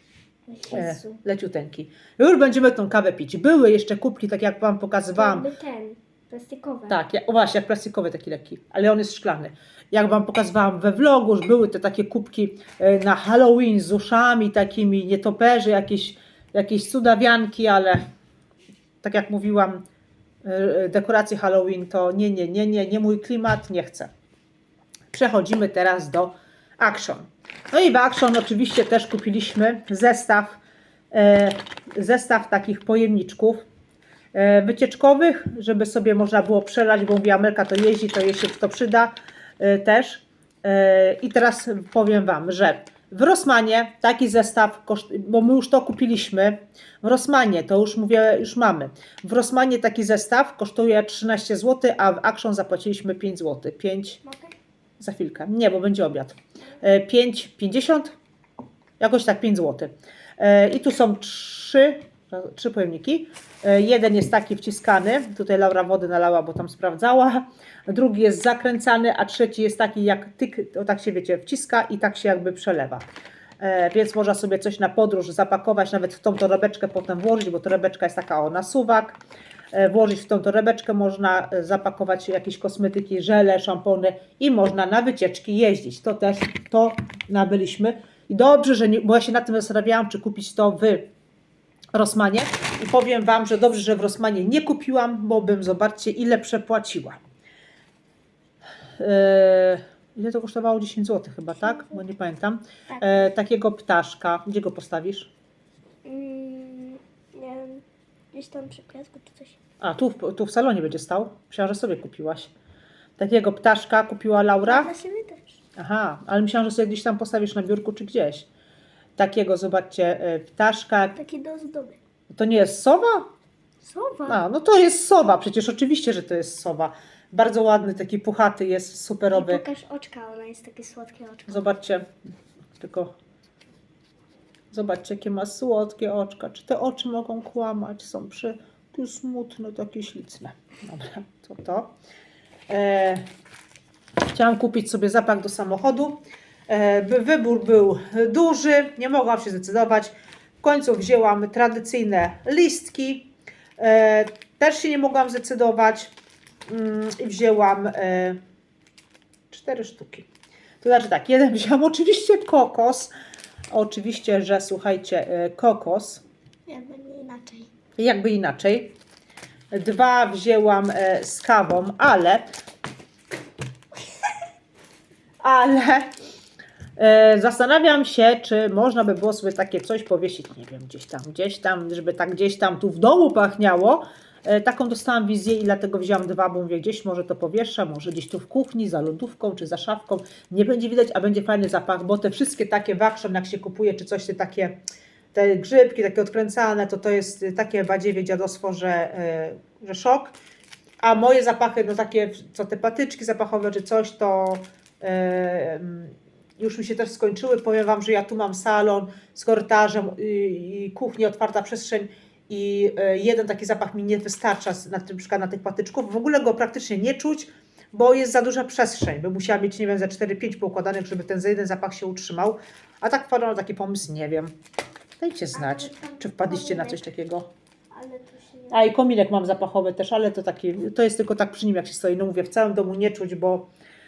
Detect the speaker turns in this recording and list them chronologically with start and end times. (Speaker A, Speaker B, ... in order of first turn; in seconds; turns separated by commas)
Speaker A: 0.5-1.2, Speaker B: 0.7-5.5, Speaker A: 5.1-7.0, Speaker B: 6.9-18.0, Speaker B: 19.0-19.8, Speaker B: 20.4-24.1, Speaker B: 25.1-30.6, Speaker B: 31.1-33.6, Speaker B: 34.3-54.2, Speaker A: 54.2-54.5, Speaker B: 55.0-58.1, Speaker B: 59.0-73.0, Speaker B: 73.6-79.2, Speaker B: 79.7-91.1, Speaker B: 91.9-97.2, Speaker B: 99.0-105.3, Speaker A: 101.6-102.0, Speaker A: 102.9-103.3, Speaker A: 106.0-109.6, Speaker B: 109.8-112.5, Speaker B: 113.2-114.9, Speaker A: 114.6-115.6, Speaker B: 115.8-118.5, Speaker B: 119.2-121.2, Speaker A: 121.2-122.0, Speaker B: 122.3-123.3, Speaker A: 123.8-124.4, Speaker B: 124.3-129.6, Speaker A: 129.3-131.7, Speaker B: 131.5-132.1, Speaker B: 132.8-133.1, Speaker B: 134.7-141.9, Speaker B: 142.7-143.2, Speaker B: 144.3-156.1, Speaker B: 156.7-158.4, Speaker B: 159.5-160.3, Speaker B: 160.8-163.1, Speaker B: 163.7-166.2, Speaker A: 166.7-167.7, Speaker B: 168.0-168.9, Speaker B: 169.7-172.4, Speaker A: 174.0-174.3, Speaker B: 175.4-176.1, Speaker B: 177.0-194.7, Speaker B: 195.3-200.3, Speaker B: 201.0-224.5, Speaker B: 225.2-227.5, Speaker A: 225.5-227.0, Speaker A: 227.9-228.9, Speaker B: 228.7-233.7